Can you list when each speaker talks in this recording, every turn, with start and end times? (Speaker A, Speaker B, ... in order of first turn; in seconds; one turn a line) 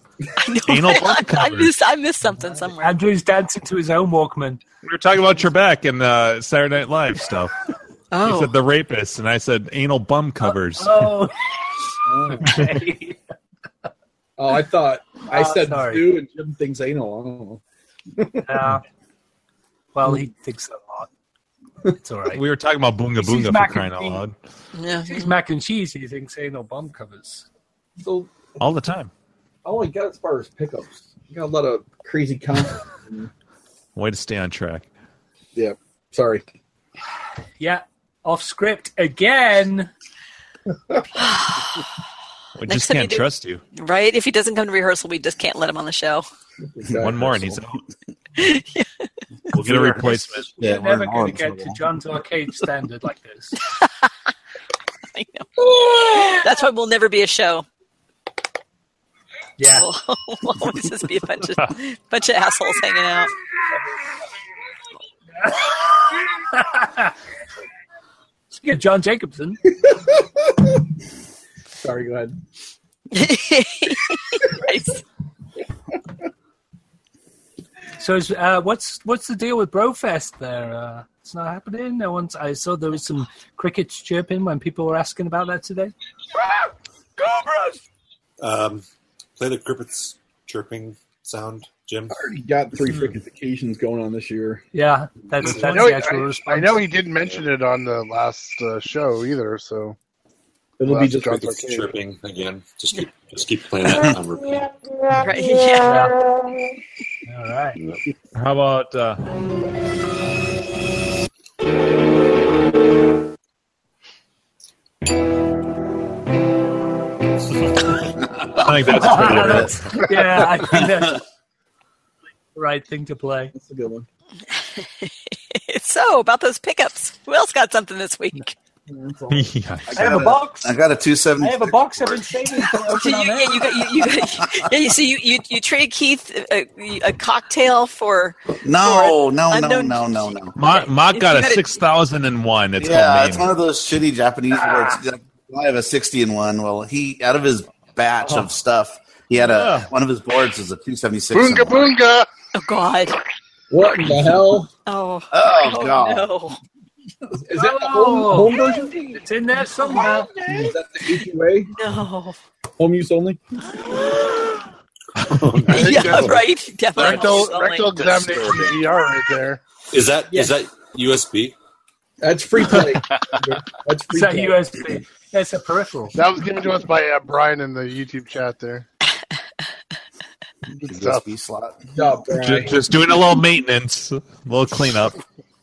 Speaker A: 0.4-3.0
Speaker B: 0.7-1.7
Speaker C: 2.8-4.6
Speaker B: 4.8-7.5
Speaker A: 8.1-8.6
Speaker B: 8.2-11.2
Speaker C: 10.8-11.4
Speaker D: 12.1-12.5
Speaker C: 12.4-13.2
Speaker D: 14.4-17.6
Speaker C: 15.3-16.2
Speaker D: 18.2-18.5
Speaker C: 18.4-18.8
Speaker C: 19.9-21.1
Speaker C: 22.0-22.4
Speaker B: 22.3-24.4
Speaker C: 23.2-24.2
Speaker A: 24.7-25.3
Speaker C: 25.0-27.4
Speaker D: 28.0-28.6
Speaker B: 28.6-29.1
Speaker D: 29.6-33.3
Speaker B: 34.0-34.9
Speaker D: 35.5-36.4
Speaker C: 37.6-39.9
Speaker A: 41.2-41.8
Speaker B: 42.6-43.6
Speaker A: 42.7-46.3
Speaker D: 46.7-47.6
Speaker B: 47.0-47.8
Speaker A: 48.4-48.9
Speaker B: 49.5-50.5
Speaker E: 49.6-51.8
Speaker C: 50.6-53.6
Speaker A: 53.7-54.1
Speaker A: 55.1-57.7
Speaker D: 55.6-56.0
Speaker C: 59.6-59.9
Speaker A: 59.6-63.3
Speaker C: 65.4-67.1
Speaker C: 68.5-69.6
Speaker D: 69.8-70.6
Speaker D: 71.8-72.4
Speaker A: 73.1-75.0
Speaker C: 78.0-85.9
Speaker F: 88.4-88.8
Speaker F: 89.4-92.1
Speaker D: 92.1-94.6
Speaker C: 94.7-96.9
Speaker G: 95.5-100.0
Speaker D: 100.8-101.9
Speaker G: 100.8-101.8
Speaker F: 101.6-104.7
Speaker A: 105.1-106.1
Speaker C: 105.8-106.1
Speaker C: 107.3-107.8
Speaker B: 108.3-109.2
Speaker E: 118.4-121.1
Speaker B: 118.5-119.8
Speaker C: 118.9-121.2
Speaker C: 122.5-123.5
Speaker D: 123.5-124.1
Speaker A: 124.8-128.6
Speaker D: 128.9-130.4
Speaker B: 129.3-130.2
Speaker C: 129.9-130.7
Speaker E: 130.0-132.2
Speaker C: 131.4-134.1
Speaker A: 132.7-141.8
Speaker E: 138.6-140.6
Speaker B: 140.6-143.5
Speaker E: 142.8-151.9
Speaker C: 149.5-149.9
Speaker G: 151.3-152.3
Speaker A: 152.5-153.2
Speaker D: 153.7-154.7
Speaker A: 154.8-156.6
Speaker E: 155.3-156.3
Speaker D: 157.3-159.2
Speaker C: 157.5-160.4
Speaker A: 159.8-162.4
Speaker D: 160.4-161.7
Speaker D: 162.8-163.4
Speaker A: 163.7-164.6
Speaker F: 165.3-166.3
Speaker A: 165.7-168.8
Speaker D: 165.7-166.4
Speaker G: 165.8-166.3
Speaker G: 166.9-169.6
Speaker F: 169.9-171.5
Speaker D: 172.2-174.7
Speaker C: 174.1-176.2
Speaker G: 176.1-178.9
Speaker E: 180.8-181.9
Speaker G: 180.9-181.2
Speaker D: 181.9-182.9
Speaker B: 182.3-185.2